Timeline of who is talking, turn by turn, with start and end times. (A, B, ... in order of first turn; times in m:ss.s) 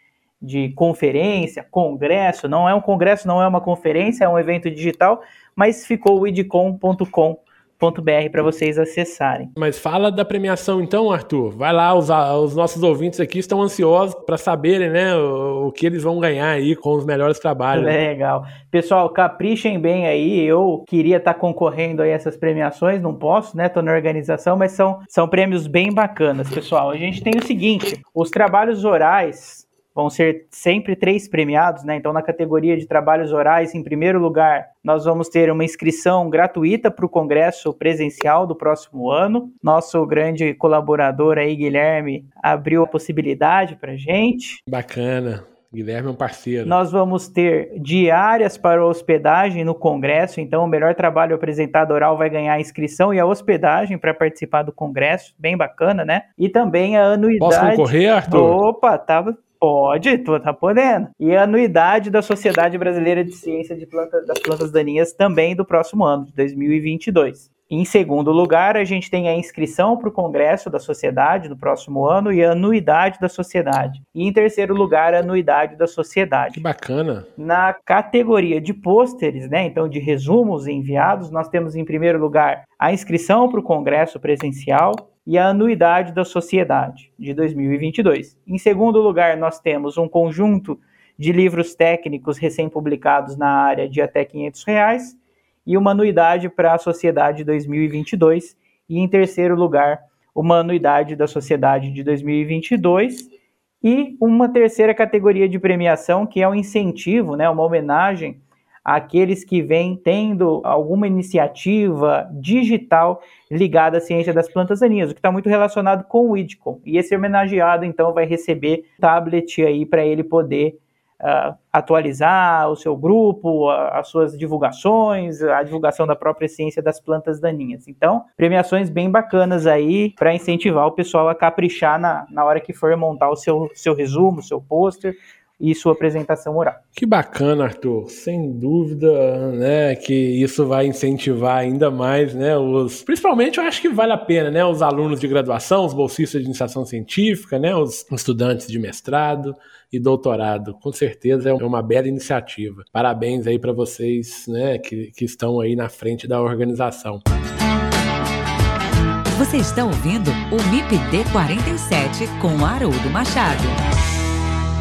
0:00.4-0:09.5 A
0:09.6-0:18.0 B
0:17.7-0:44.6 A
0:44.7-0:46.7 B
0:46.7-1:16.6 A
0:57.4-0:58.6 B
1:16.5-1:17.3 B
1:17.4-1:43.3 A
1:43.8-2:16.8 A
2:17.0-2:37.2 B
2:39.3-2:43.8 C